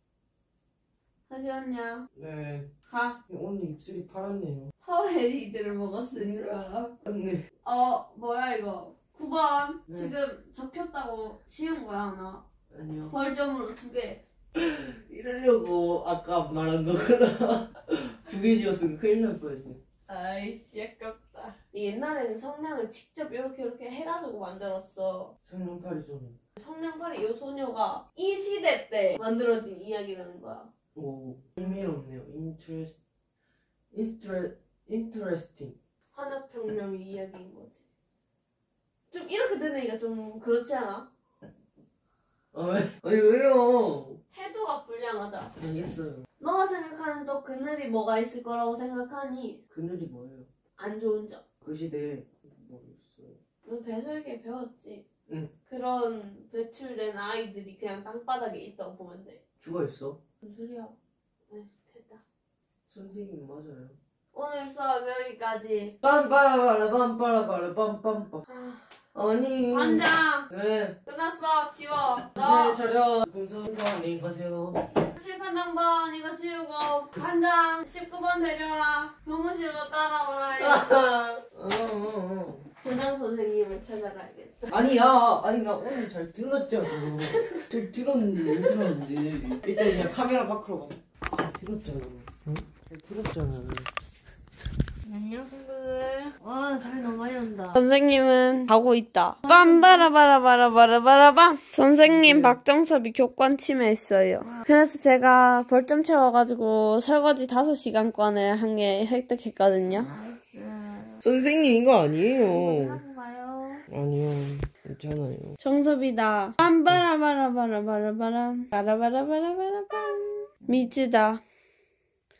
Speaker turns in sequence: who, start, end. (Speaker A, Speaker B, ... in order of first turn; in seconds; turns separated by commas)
Speaker A: 1.3-2.0, Speaker B: 2.1-2.7, Speaker A: 2.9-3.2, Speaker B: 3.3-4.7, Speaker A: 4.8-7.0, Speaker B: 6.1-7.4, Speaker A: 7.6-12.4, Speaker B: 9.9-10.1, Speaker B: 12.7-13.1, Speaker A: 13.1-14.2, Speaker B: 14.5-19.8, Speaker A: 20.1-25.3, Speaker B: 25.4-26.4, Speaker A: 26.6-30.7, Speaker B: 30.9-33.0, Speaker B: 33.9-35.8, Speaker A: 36.1-37.8, Speaker A: 39.1-41.1, Speaker B: 42.5-44.2, Speaker A: 44.3-45.5, Speaker B: 45.5-46.2, Speaker A: 46.4-49.6, Speaker B: 49.7-50.5, Speaker A: 50.8-51.4, Speaker B: 51.6-53.4, Speaker A: 53.6-55.0, Speaker A: 55.7-59.4, Speaker B: 59.6-60.2, Speaker A: 60.4-61.0, Speaker A: 61.5-62.2, Speaker B: 62.9-64.0, Speaker A: 64.3-66.0, Speaker B: 66.0-68.4, Speaker A: 68.5-68.9, Speaker B: 69.1-71.0, Speaker A: 69.7-70.5, Speaker A: 71.0-72.8, Speaker B: 72.3-74.8, Speaker A: 75.0-80.9, Speaker B: 80.6-82.7, Speaker A: 82.8-84.7, Speaker B: 84.7-93.9, Speaker A: 86.9-87.7, Speaker C: 95.0-97.7, Speaker A: 97.7-110.2, Speaker B: 102.0-102.6, Speaker C: 110.1-111.2, Speaker B: 111.2-113.0, Speaker C: 112.6-113.8, Speaker B: 113.9-115.6, Speaker A: 115.6-121.4